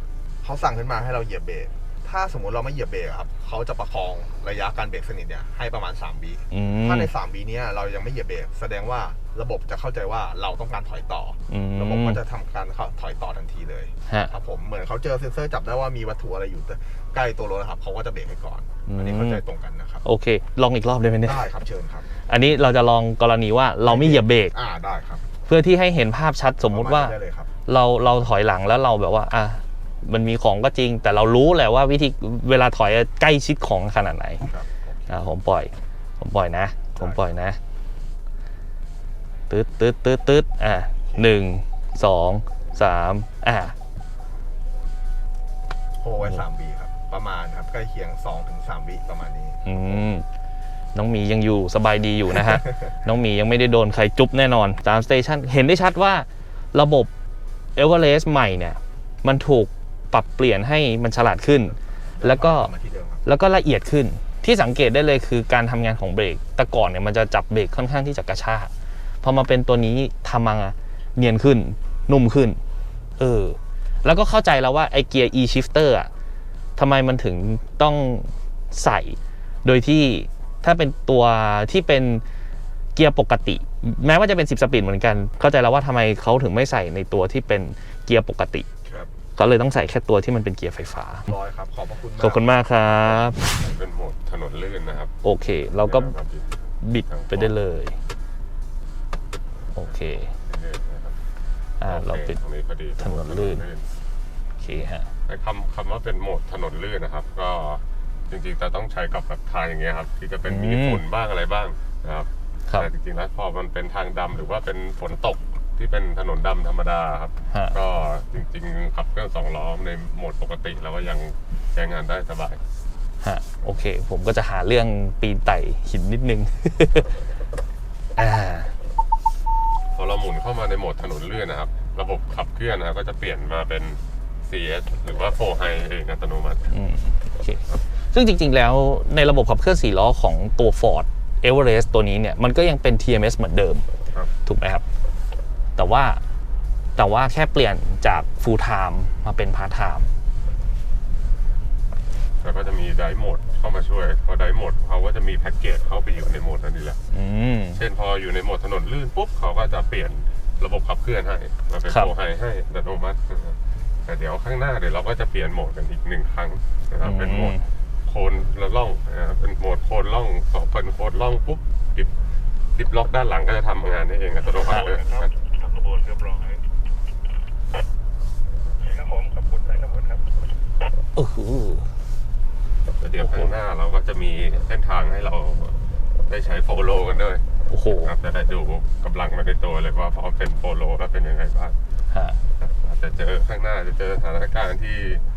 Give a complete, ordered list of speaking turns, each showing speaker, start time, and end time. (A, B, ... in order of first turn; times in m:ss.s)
0:00.4-0:20.0 A
0:06.5-0:07.1 B
0:11.5-0:12.2 B
0:18.9-0:19.4 B
0:20.0-0:21.5 B
0:21.2-0:22.1 A
0:22.2-0:24.5 B
0:23.8-0:25.3 A
0:25.4-0:27.2 B
0:26.6-0:27.5 A
0:27.7-0:34.4 B
0:34.4-0:35.1 A
0:35.1-0:37.6 B
0:37.0-0:37.2 A
0:39.5-0:43.7 B
0:41.1-0:41.3 A
0:46.0-0:49.6 A
0:49.6-0:50.2 B
0:50.9-0:57.1 B
0:57.8-1:02.7 B
1:02.1-1:03.2 A
1:03.2-1:12.6 B
1:13.2-1:16.1 B
1:16.8-1:22.2 B
1:22.9-1:28.7 B
1:28.8-1:29.1 A
1:29.4-1:31.3 B
1:31.3-1:32.5 A
1:32.2-1:33.4 B
1:32.8-1:35.1 C
1:35.2-1:36.1 B
1:35.8-1:37.5 C
1:36.8-1:38.0 B
1:39.8-1:40.3 B
1:40.4-1:41.2 C
1:41.8-1:42.4 B
1:41.8-1:43.9 C
1:43.0-1:43.6 B
1:44.6-1:45.1 B
1:45.3-2:02.6 C
1:50.4-1:51.0 B
2:03.2-2:07.2 B
2:08.2-2:08.7 B
2:09.9-2:16.7 C
2:16.7-2:23.8 B
2:24.4-2:24.8 B
2:25.8-2:26.2 B
2:27.0-2:30.1 B
2:32.4-2:37.0 C
2:37.1-2:37.8 B
2:37.7-2:52.1 C
2:47.0-2:47.7 B
2:52.7-2:55.3 C
2:55.7-2:56.5 D
2:59.0-3:00.2 D
3:01.1-3:01.9 B
3:03.0-3:07.4 C
3:03.2-3:03.5 B
3:07.7-3:08.1 B
3:08.0-3:11.8 C
3:12.1-3:12.4 B
3:12.6-3:15.2 C